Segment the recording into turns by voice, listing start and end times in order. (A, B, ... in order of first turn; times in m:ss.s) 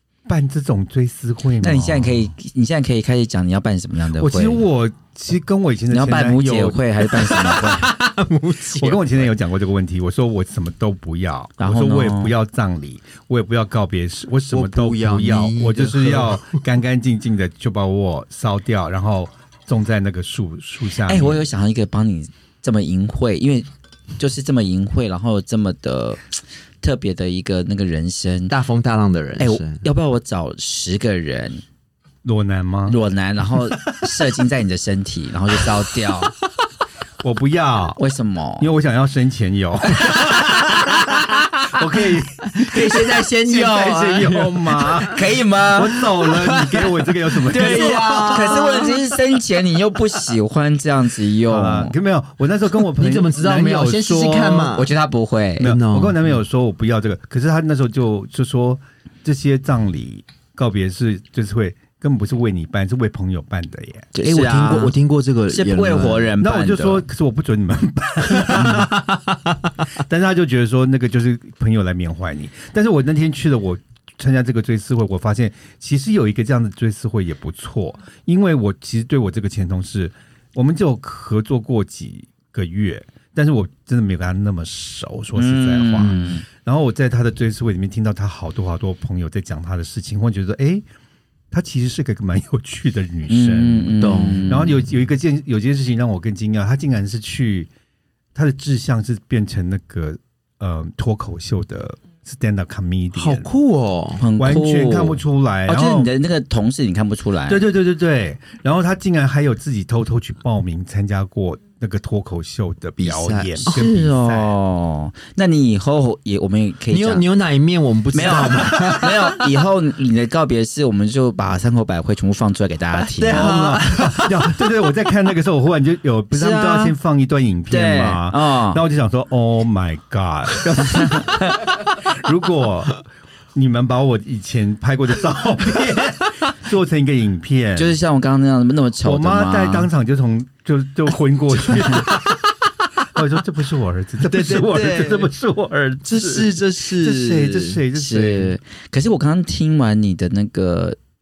0:00.3-0:02.3 A
0:01.6-0:04.6 B
0:04.2-0:06.9 A
0:05.9-0:07.9 B
0:07.1-0:09.3 C
0:08.8-0:21.4 A
0:11.6-0:12.3 B
0:14.5-0:16.6 C
0:21.0-0:23.7 B
0:24.2-0:26.2 B
0:26.8-0:28.5 B
0:28.5-0:29.8 C
0:29.4-0:31.6 B
0:32.2-0:33.0 A
0:32.9-0:36.3 B
0:37.2-0:38.0 A
0:38.0-0:38.7 B
0:38.6-0:49.0 A
0:42.6-0:45.3 C
0:42.7-0:43.6 B
0:45.0-0:46.0 B
0:46.0-0:49.4 C
0:47.5-0:52.0 B
0:51.5-0:54.8 A
0:52.8-0:54.9 C
0:54.7-0:55.7 B
0:55.6-0:56.2 C
0:55.6-1:04.1 A
1:04.1-1:04.9 B
1:04.2-1:06.3 C
1:05.5-1:07.0 B
1:06.4-1:09.0 A
1:08.4-1:09.7 C
1:10.0-1:30.8 A
1:25.4-1:26.4 B
1:31.5-1:37.7 A
1:33.3-1:34.8 B
1:34.0-1:34.6 C
1:38.4-1:43.5 A
1:43.1-1:44.2 C
1:44.2-1:47.6 B
1:44.4-1:46.1 A
1:47.5-1:54.6 A
1:53.0-1:53.9 C
1:53.7-1:57.2 B
1:56.9-1:59.6 C
1:58.1-2:03.5 B
2:03.0-2:04.7 C
2:03.3-2:13.0 A
2:06.3-2:07.0 B
2:07.7-2:08.8 B
2:11.0-2:11.4 B
2:13.5-2:18.0 A
2:17.8-2:19.9 B
2:19.0-2:22.3 A
2:21.7-2:22.4 C
2:23.1-2:28.6 A
2:24.2-2:25.3 C
2:26.0-2:27.8 C
2:27.9-2:31.0 B